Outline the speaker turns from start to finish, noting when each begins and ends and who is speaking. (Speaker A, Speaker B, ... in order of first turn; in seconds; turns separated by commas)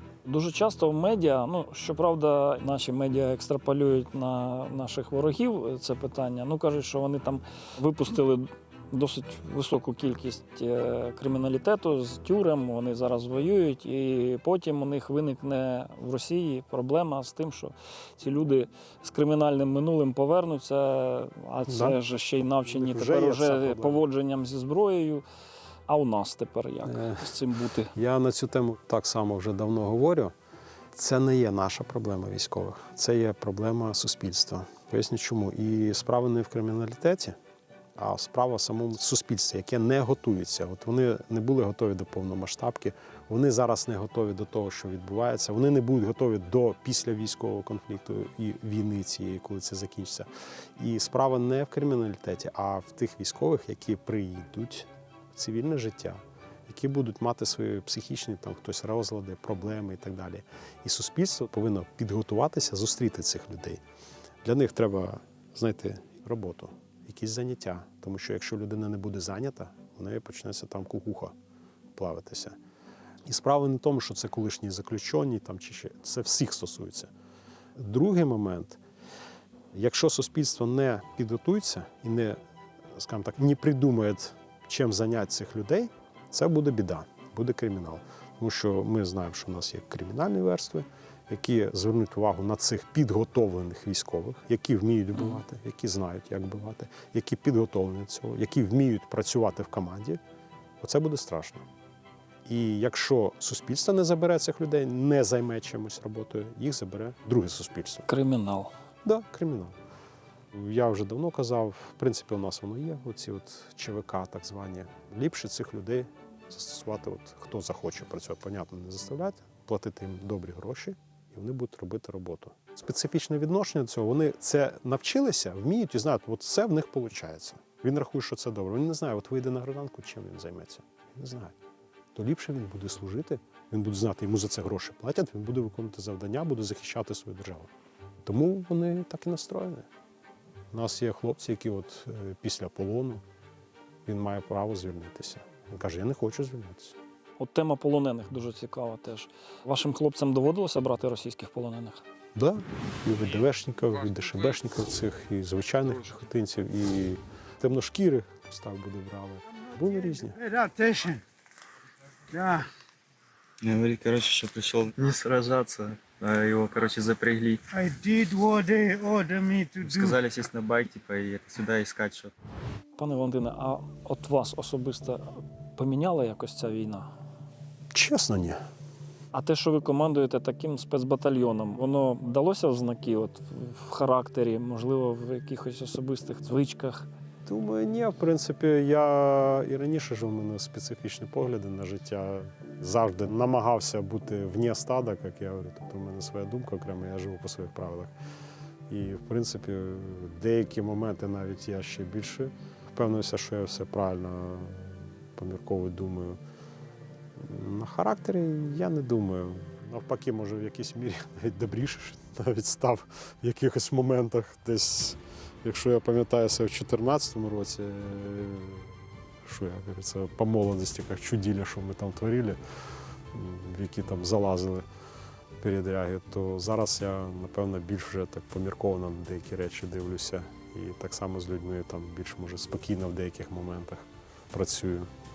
Speaker A: 0.2-25.2, Speaker B: 21.7-22.0, Speaker B: 22.6-24.0, Speaker A: 25.9-27.9, Speaker B: 26.8-27.3, Speaker B: 27.9-30.3, Speaker B: 30.9-37.4, Speaker B: 38.0-63.8, Speaker B: 64.4-71.3, Speaker B: 71.9-72.6, Speaker B: 73.2-77.1, Speaker B: 77.8-78.8, Speaker B: 79.7-82.4, Speaker B: 82.9-100.2, Speaker B: 100.8-101.7, Speaker B: 102.4-108.1, Speaker A: 108.1-108.7, Speaker B: 109.0-109.8, Speaker B: 110.5-131.5, Speaker B: 132.1-137.7, Speaker B: 138.2-139.9, Speaker B: 140.7-143.2, Speaker B: 144.1-146.9, Speaker A: 147.4-152.0, Speaker B: 152.3-160.4, Speaker C: 159.5-161.2, Speaker C: 162.3-162.7, Speaker D: 163.6-167.6, Speaker C: 167.7-170.2, Speaker D: 169.8-172.3, Speaker A: 173.0-177.1, Speaker B: 177.9-178.6, Speaker A: 179.3-187.1, Speaker B: 187.4-198.1, Speaker B: 198.9-206.4, Speaker B: 207.3-222.6, Speaker B: 223.3-224.8, Speaker B: 225.6-235.1